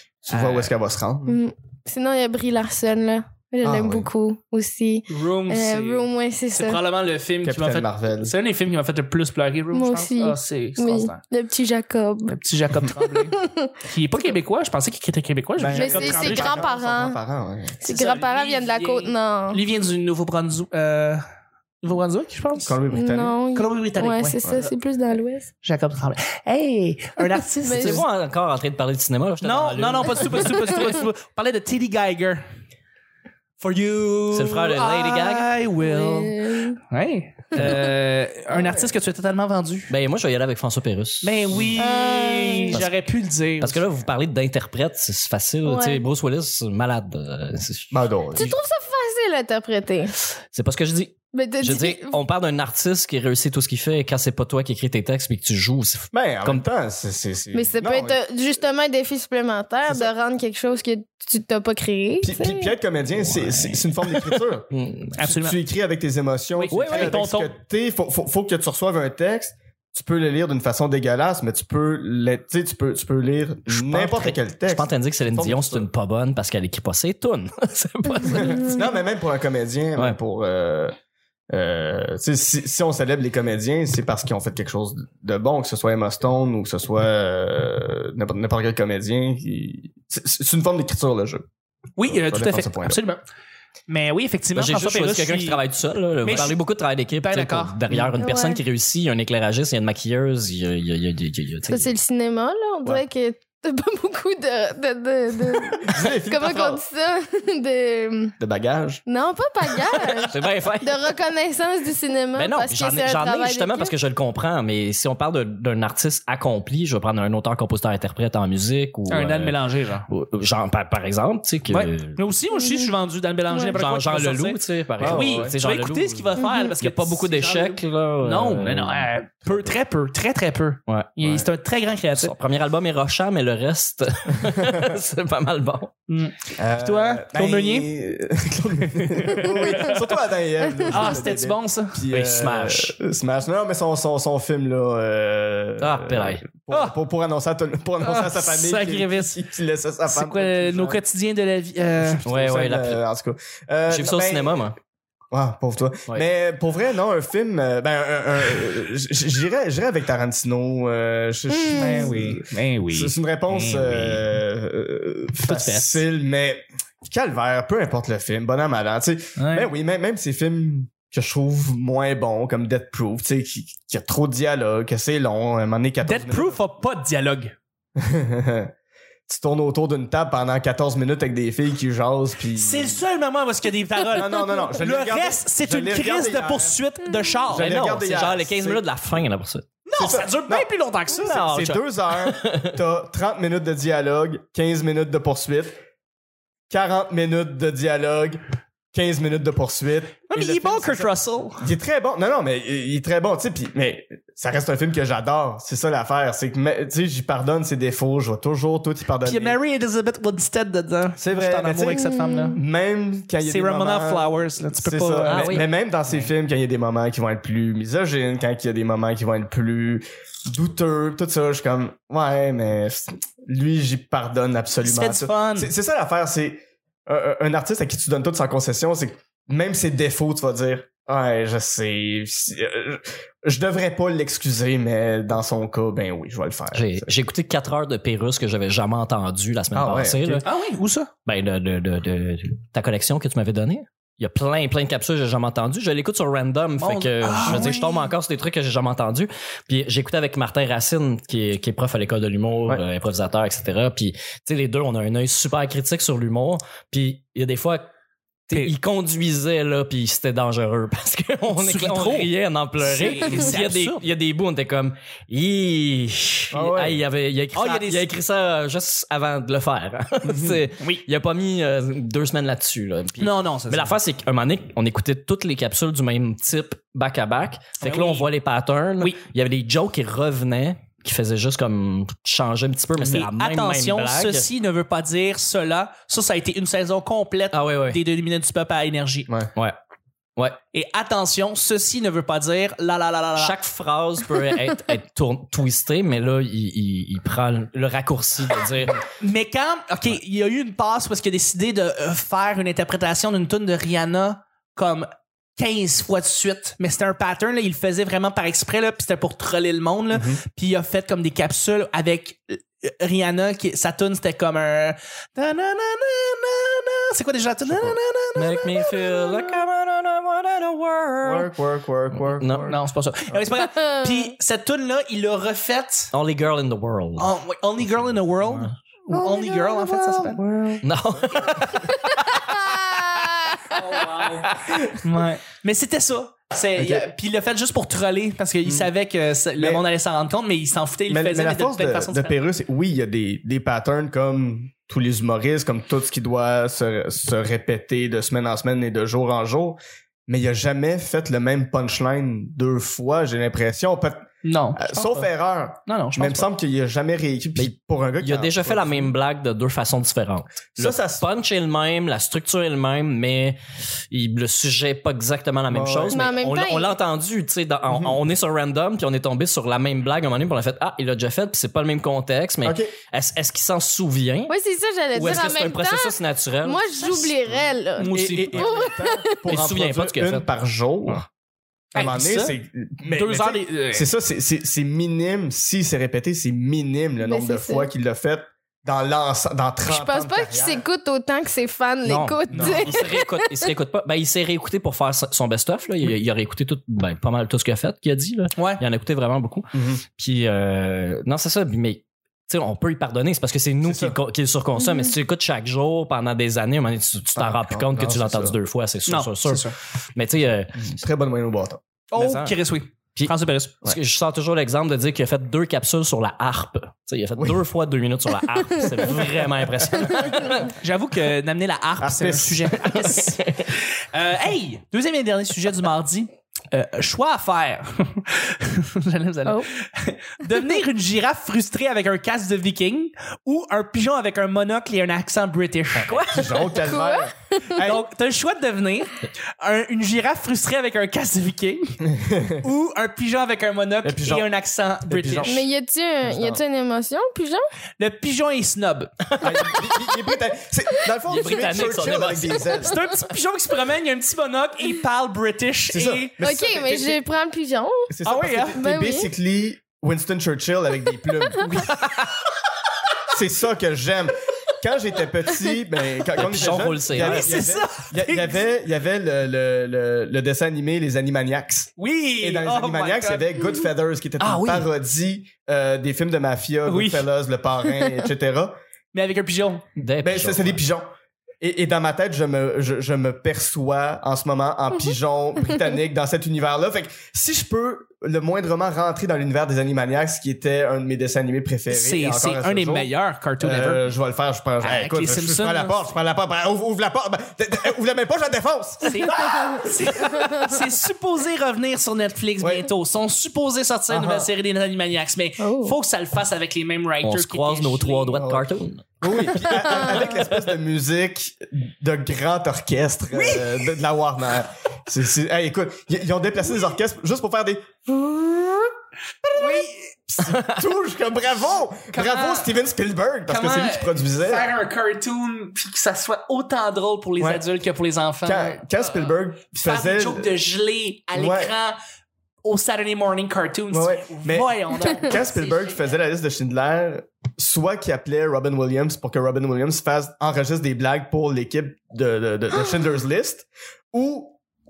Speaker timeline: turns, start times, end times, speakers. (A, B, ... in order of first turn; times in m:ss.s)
0:00.2-0:01.4 A
0:00.3-0:00.7 B
0:01.2-0:06.8 C
0:03.6-0:04.1 A
0:05.1-0:11.2 B
0:07.4-0:08.3 A
0:09.7-0:12.4 C
0:12.3-0:13.3 B
0:13.0-0:13.7 C
0:13.9-0:16.7 B
0:15.6-0:17.8 A
0:15.7-0:17.2 C
0:17.8-0:19.6 C
0:17.8-0:21.2 B
0:21.8-0:22.7 B
0:22.6-0:23.4 A
0:22.9-0:25.5 C
0:23.5-0:24.4 B
0:25.6-0:28.0 B
0:27.6-0:28.0 C
0:27.8-0:30.8 D
0:29.4-0:32.4 B
0:33.6-0:39.9 B
0:34.3-0:35.5 D
0:35.8-0:36.8 C
0:37.5-0:37.8 C
0:39.9-0:41.7 D
0:41.2-0:43.8 B
0:41.8-0:42.8 C
0:43.6-0:48.5 D
0:45.6-0:46.0 C
0:47.9-0:48.5 A
0:48.3-0:50.1 C
0:50.5-0:56.6 D
0:51.3-0:52.2 C
0:56.1-0:58.2 A
0:57.5-1:02.8 C
0:59.9-1:00.1 A
1:02.2-1:04.7 A
1:03.3-1:05.2 D
1:05.2-1:05.6 B
1:05.2-1:15.9 A
1:06.5-1:07.5 B
1:06.7-1:07.2 D
1:13.7-1:18.8 D
1:18.3-1:18.8 C
1:18.3-1:20.9 A
1:21.5-1:31.4 A
1:32.0-1:33.2 B
1:32.0-1:33.0 A
1:33.9-1:35.6 B
1:34.5-1:41.9 D
1:36.2-1:36.6 B
1:37.1-1:37.8 B
1:38.2-1:38.6 C
1:41.7-1:48.4 C
1:45.8-1:46.8 A
1:48.4-1:49.0 A
1:49.0-1:53.9 C
1:50.3-1:51.0 D
1:52.3-2:02.2 D
1:59.1-2:00.1 B
2:01.7-2:12.3 B
2:02.5-2:02.9 C
2:03.5-2:03.8 C
2:03.7-2:09.1 D
2:05.0-2:05.5 A
2:06.4-2:06.7 C
2:09.4-2:09.7 A
2:10.9-2:11.2 D
2:11.2-2:11.5 A
2:12.1-2:15.9 D
2:16.1-2:17.9 B
2:16.6-2:31.0 A
2:19.2-2:19.6 D
2:19.7-2:20.0 B
2:20.9-2:22.0 B
2:22.1-2:22.9 D
2:25.8-2:26.5 D
2:26.7-2:26.9 B
2:28.0-2:29.4 B
2:30.0-2:32.2 B
2:32.0-2:34.7 A
2:32.2-2:33.0 D
2:33.9-2:34.8 D
2:35.3-2:42.4 A
2:41.5-2:42.2 C
2:41.8-2:44.2 B
2:42.9-2:56.6 A
2:45.4-2:46.0 B
2:49.4-2:49.7 B
2:56.0-2:57.5 B
2:58.0-2:58.7 A
2:59.3-3:03.0 A
3:02.6-3:07.8 B
3:04.1-3:06.8 A
3:07.5-3:08.8 A
3:07.6-3:09.7 D
3:09.8-3:11.5 B
3:10.0-3:15.8 A
3:11.3-3:12.8 D
3:16.7-3:18.4 A
3:18.9-3:21.1 A
3:20.3-3:21.7 B
3:21.6-3:29.6 A
3:29.2-3:32.6 B
3:31.2-3:57.1 A
3:31.9-3:32.6 C
3:33.4-3:35.7 B
3:35.2-3:36.3 D
3:44.8-3:45.7 B
3:56.7-4:00.4 D
3:59.7-4:00.4 A
4:00.4-4:01.1 B
4:01.2-4:17.9 D
4:06.8-4:08.1 B
4:18.5-4:44.5 D
4:21.5-4:24.0 B
4:26.5-4:27.0 A
4:27.5-4:28.1 B
4:30.8-4:31.0 B
4:33.2-4:34.0 B
4:37.8-4:38.3 B
4:43.0-4:49.3 B
4:47.5-4:48.0 D
4:50.7-4:53.6 B
4:53.4-4:59.0 D
4:59.2-5:05.0 B
5:05.6-5:19.2 B
5:10.1-5:10.4 A
5:17.7-5:17.9 A
5:18.3-5:21.5 D
5:21.2-5:22.8 A
5:22.1-5:22.7 D
5:22.6-5:26.1 B
5:26.1-5:27.3 D
5:27.2-5:30.4 B
5:28.4-5:28.7 D
5:29.1-5:31.8 A
5:30.8-5:31.7 D
5:32.0-5:33.7 C
5:33.7-5:42.4 B
5:36.8-5:37.1 A
5:38.6-5:38.9 A
5:39.6-5:39.8 A
5:41.1-5:59.1 A
5:54.4-5:55.2 B
5:55.9-5:56.4 B
5:57.6-6:03.6 D
6:00.8-6:01.2 A
6:04.1-6:14.5 D
6:05.7-6:06.2 A
6:06.1-6:07.0 C
6:07.9-6:08.2 A
6:12.6-6:12.9 A
6:14.5-6:19.3 C
6:15.1-6:17.2 D
6:18.0-6:18.8 B
6:18.1-6:21.2 A
6:19.4-6:20.5 D
6:21.9-6:22.5 B
6:21.9-6:30.8 A
6:23.1-6:24.1 B
6:27.2-6:27.9 C
6:29.8-6:33.6 C
6:32.0-6:50.9 D
6:32.5-6:33.0 A
6:38.6-6:38.8 B
6:39.7-6:40.0 A
6:43.8-6:44.2 A
6:47.3-6:48.6 A
6:49.0-6:49.7 B
6:50.7-6:51.8 A
6:52.1-6:53.8 B
6:52.2-6:52.6 D
6:53.1-7:00.7 D
6:57.4-6:57.6 A
7:00.8-7:16.6 B
7:02.0-7:02.7 A
7:02.8-7:03.6 D
7:15.9-7:18.0 A
7:16.0-7:16.8 D
7:16.9-7:17.8 C
7:17.8-7:21.9 B
7:22.1-7:22.6 A
7:22.6-7:25.6 B
7:24.0-7:24.5 A
7:25.1-7:25.6 A
7:25.4-7:27.6 C
7:26.2-7:26.6 A
7:28.0-7:29.2 B
7:29.4-7:33.0 A
7:31.3-7:32.8 D
7:32.8-7:36.3 B
7:35.9-7:37.2 A
7:36.4-7:38.1 C
7:38.1-7:41.6 A
7:38.2-7:38.8 B
7:38.7-7:39.3 C
7:41.6-7:42.4 B
7:43.3-7:51.9 A
7:46.4-7:47.6 D
7:47.1-7:48.6 B
7:52.0-7:53.9 B
7:52.4-7:58.7 A
7:54.4-7:54.9 D
7:56.9-7:57.2 B
7:59.1-7:59.8 B
8:00.0-8:00.8 D
8:00.2-8:01.1 A
8:01.6-8:19.5 A
8:11.9-8:14.1 B
8:14.8-8:16.1 B
8:19.0-8:28.4 B
8:22.6-8:22.9 A
8:24.1-8:24.5 A
8:25.6-8:26.0 C
8:27.2-8:29.2 D
8:28.4-8:28.7 A
8:29.2-8:38.9 A
8:30.0-8:30.4 B
8:33.3-8:34.0 B
8:39.5-8:44.7 A
8:39.5-8:39.9 B
8:42.1-8:42.7 B
8:43.5-8:52.0 B
8:48.4-8:50.6 A
8:51.3-8:51.7 A
8:52.6-8:56.1 B
8:53.9-9:04.6 A